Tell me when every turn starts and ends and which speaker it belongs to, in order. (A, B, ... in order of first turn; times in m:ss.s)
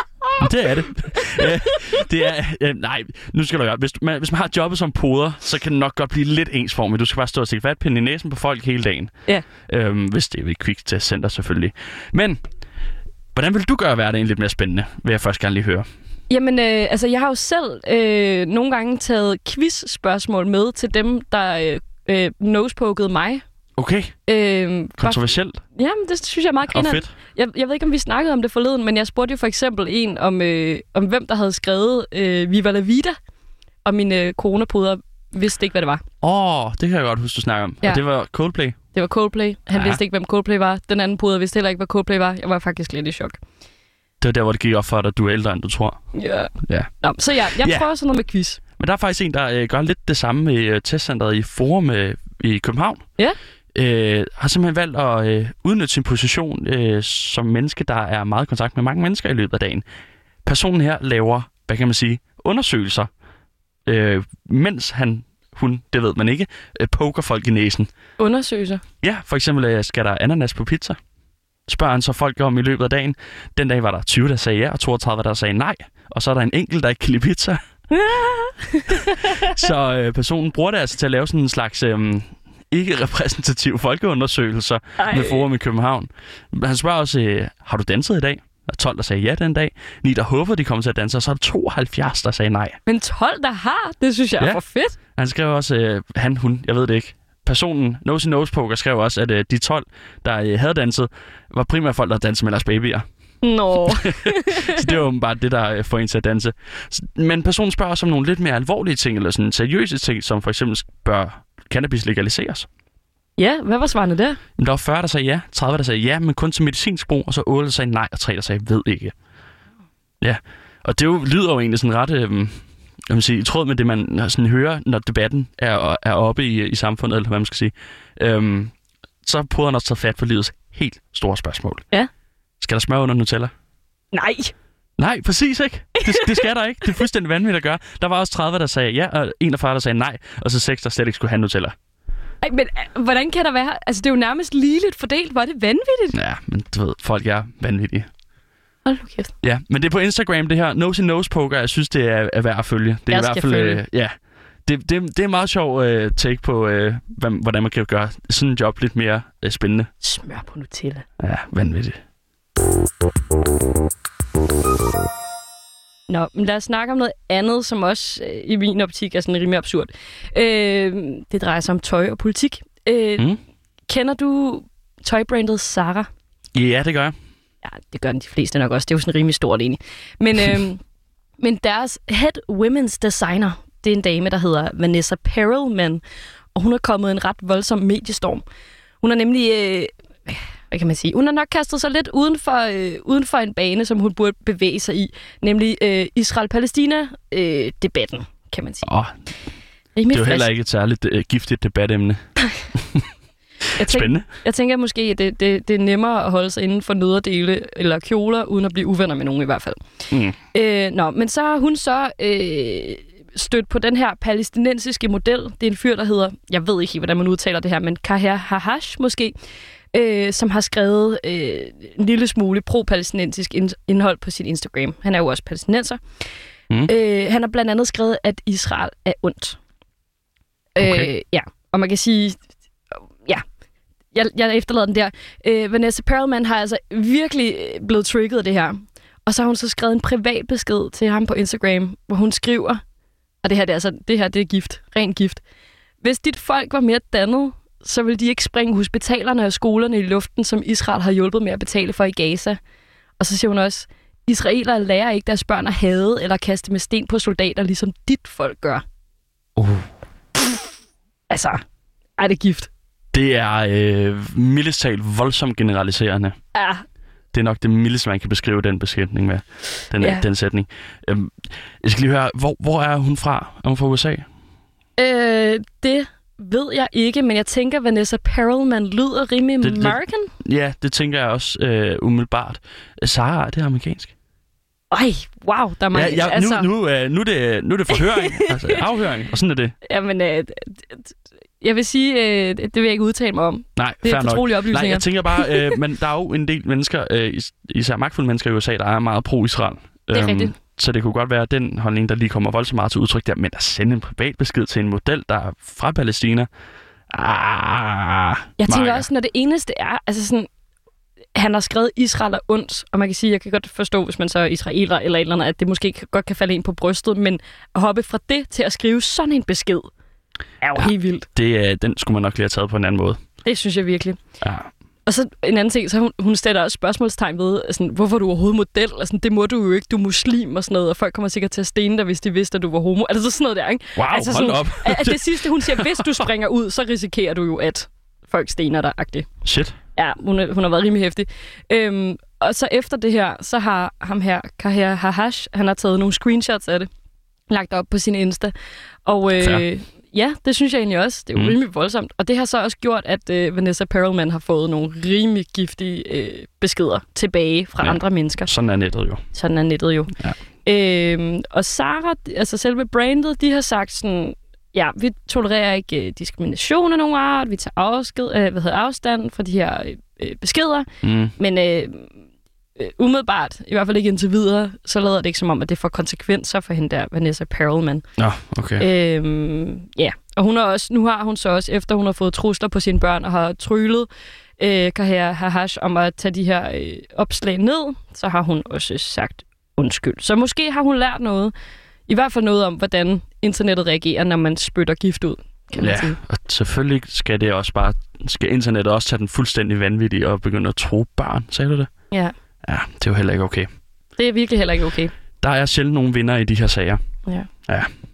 0:00.4-0:12.4 A
0:01.7-0:02.0 B
0:13.4-0:15.9 A
0:16.3-0:23.4 B
0:23.8-0:24.1 A
0:24.3-0:33.1 B
0:25.0-0:25.6 A
0:26.7-0:27.1 A
0:33.8-0:36.0 B
0:36.2-0:38.8 A
0:38.9-0:43.4 B
0:39.7-0:40.0 A
0:44.2-0:46.0 A
0:46.1-0:48.6 B
0:46.6-0:46.9 A
0:47.6-0:47.9 A
0:48.8-0:53.0 A
0:53.8-0:59.8 A
1:00.4-1:03.1 A
1:03.9-1:07.9 A
1:08.2-1:08.8 B
1:09.0-1:11.0 A
1:11.7-1:17.6 A
1:17.9-1:19.5 B
1:19.0-1:32.8 A
1:25.0-1:25.4 B
1:32.9-1:35.0 B
1:35.2-1:43.0 A
1:43.4-1:44.9 B
1:43.9-1:52.7 A
1:53.4-1:54.4 B
1:54.6-1:59.1 A
2:00.2-2:08.7 A
2:09.2-2:11.8 A
2:12.6-2:13.5 A
2:14.1-2:14.5 B
2:15.0-2:21.8 A
2:16.0-2:17.0 B
2:22.4-2:26.2 B
2:26.1-2:28.1 A
2:28.8-2:29.3 B
2:29.4-2:34.1 A
2:33.1-2:33.8 B
2:34.7-2:39.9 A
2:40.0-2:41.1 B
2:41.2-2:42.0 A
2:46.1-2:53.3 B
2:53.9-2:56.1 B
2:56.5-2:57.2 A
2:57.6-3:00.8 B
3:01.4-3:06.0 B
3:06.6-3:08.4 B
3:09.0-3:18.9 B
3:18.8-3:19.1 A
3:20.0-3:20.5 B
3:20.1-3:22.2 A
3:22.8-3:23.1 A
3:23.8-3:29.8 B
3:23.8-3:24.2 A
3:30.1-3:30.4 A
3:30.5-3:39.4 B
3:39.9-3:46.0 B
3:46.9-3:49.6 B
3:50.8-3:52.4 B
3:50.8-3:51.1 A
3:52.9-3:53.4 B
3:54.1-4:02.8 B
4:03.4-4:05.4 B
4:06.0-4:12.6 B
4:13.2-4:18.8 B
4:19.6-4:19.9 A
4:21.3-4:21.6 B
4:22.2-4:22.7 B
4:23.1-4:26.3 A
4:26.6-4:26.8 B
4:27.3-4:34.2 A
4:30.0-4:30.3 B
4:35.0-4:40.3 B
4:39.6-4:44.1 A
4:44.9-4:46.7 B
4:45.9-4:49.8 A
4:47.9-4:48.8 B
4:49.8-4:55.8 B
4:53.8-5:06.5 A
5:00.1-5:00.6 B
5:07.1-5:09.1 A
5:08.6-5:10.5 B
5:11.4-5:19.9 B
5:20.6-5:21.3 B
5:20.8-5:23.2 A
5:23.4-5:24.2 B
5:24.4-5:24.7 A
5:25.1-5:39.3 B
5:34.0-5:36.3 A
5:39.4-5:39.8 A
5:40.0-5:46.9 B
5:47.5-5:48.5 B
5:49.1-5:58.5 B
5:49.4-5:49.6 A
5:57.8-5:59.2 A
5:59.3-6:10.9 B
6:11.0-6:11.4 A
6:11.4-6:12.2 B
6:12.8-6:18.0 B
6:18.2-6:18.9 A
6:18.8-6:24.1 B
6:24.6-6:31.5 B
6:32.1-6:36.2 B
6:35.8-6:41.9 A
6:42.6-6:43.7 A
6:44.2-6:45.1 B
6:45.4-6:47.0 A